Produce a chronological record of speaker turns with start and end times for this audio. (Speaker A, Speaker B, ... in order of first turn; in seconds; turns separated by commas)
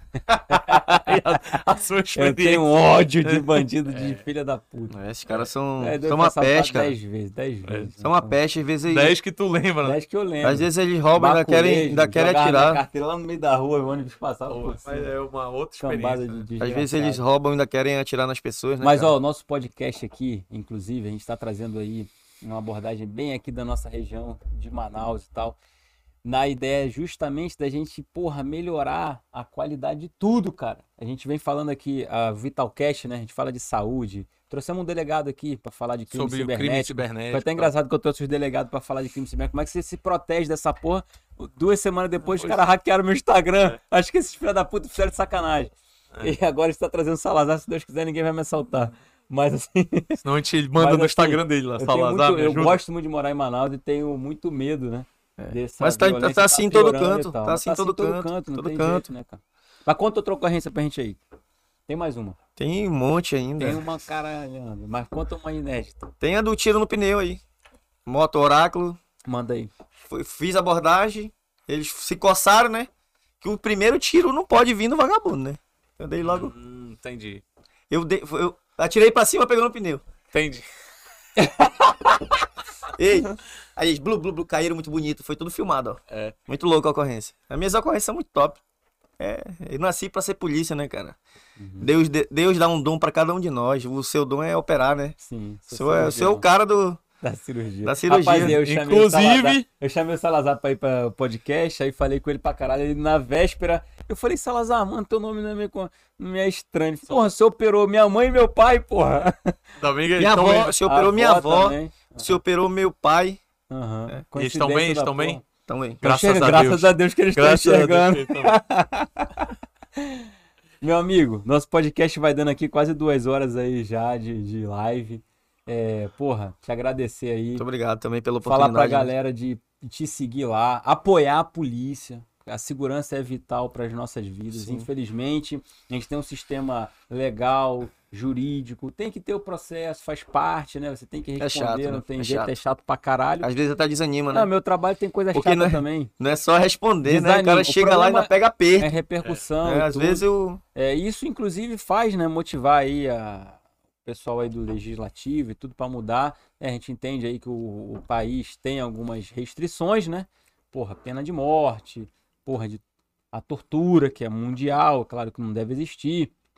Speaker A: 0.3-2.7, Speaker B: 0.5-5.0, Speaker A: 3.2-4.2, Speaker C: 4.9-7.0, Speaker B: 5.8-8.4, Speaker A: 7.7-7.9, Speaker C: 8.0-9.2, Speaker A: 8.8-10.0, Speaker B: 9.8-15.1, Speaker C: 10.4-12.8, Speaker A: 14.5-16.4, Speaker B: 15.8-17.2, Speaker C: 16.6-19.1, Speaker B: 18.8-25.6, Speaker B: 26.2-50.2, Speaker A: 36.1-37.7, Speaker A: 42.3-42.6, Speaker A: 50.2-52.8, Speaker B: 50.8-61.2, Speaker C: 55.4-59.1, Speaker B: 61.9-62.4, Speaker C: 62.6-63.8, Speaker B: 63.6-66.1, Speaker C: 66.2-67.4, Speaker C: 68.0-69.0, Speaker B: 69.2-69.7, Speaker C: 70.0-72.9, Speaker C: 73.4-76.5, Speaker A: 76.2-77.4, Speaker C: 77.9-80.0, Speaker A: 80.3-80.7, Speaker B: 81.4-82.3, Speaker C: 82.9-88.6, Speaker A: 86.1-86.3, Speaker C: 89.2-91.2, Speaker B: 91.6-91.9, Speaker C: 91.8-95.2, Speaker B: 95.2-96.5, Speaker C: 95.7-97.0, Speaker B: 97.2-109.6, Speaker C: 97.8-98.6, Speaker A: 98.3-99.6, Speaker A: 109.8-110.8, Speaker C: 110.2-113.4, Speaker B: 110.8-112.3, Speaker B: 113.7-115.4, Speaker A: 114.3-115.4, Speaker C: 115.7-116.0, Speaker B: 116.0-120.3, Speaker A: 116.0-118.5, Speaker B: 120.8-127.6, Speaker C: 127.5-129.1, Speaker B: 128.4-143.5, Speaker C: 134.5-134.9, Speaker C: 141.4-142.6, Speaker C: 143.4-144.5, Speaker B: 144.3-146.1, Speaker C: 145.3-148.9, Speaker B: 147.0-166.3, Speaker C: 149.6-150.6